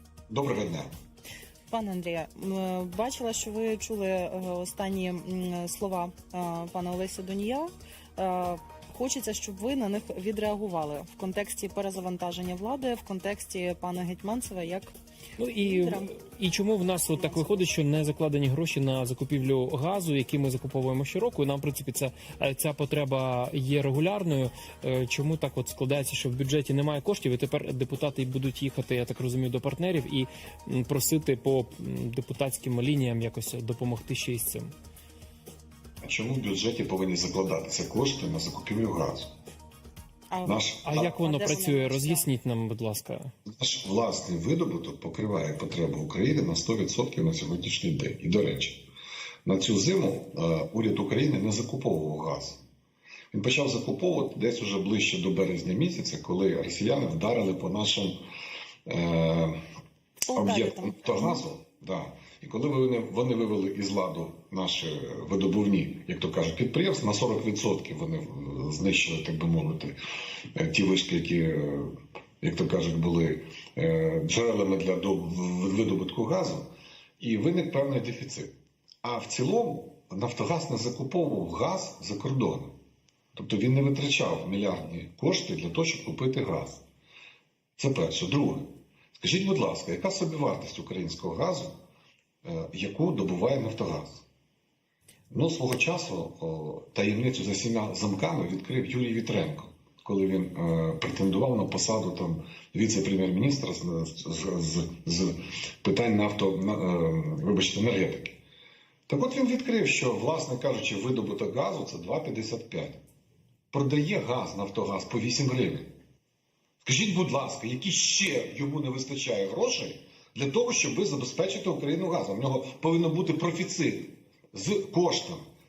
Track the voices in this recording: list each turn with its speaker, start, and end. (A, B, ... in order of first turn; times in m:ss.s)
0:00.3-0:00.9 A
0:01.7-0:14.9 B
0:15.4-0:34.7 C
0:15.6-0:16.1 B
0:17.2-0:17.6 B
0:36.0-0:39.3 A
0:40.3-0:42.2 B
0:40.4-0:41.2 A
0:40.8-0:43.3 C
0:43.4-0:48.9 A
0:49.4-0:52.6 A
0:53.3-0:58.2 A
0:58.9-0:59.6 A
1:00.2-1:01.4 B
1:00.3-1:10.0 A
1:10.5-1:18.5 A
1:19.0-1:22.8 A
1:23.3-1:26.8 A
1:27.8-1:31.8 A
1:32.4-1:34.2 A
1:35.3-1:48.4 A
1:49.1-1:53.0 A
1:53.7-1:55.9 A
1:56.8-2:05.4 A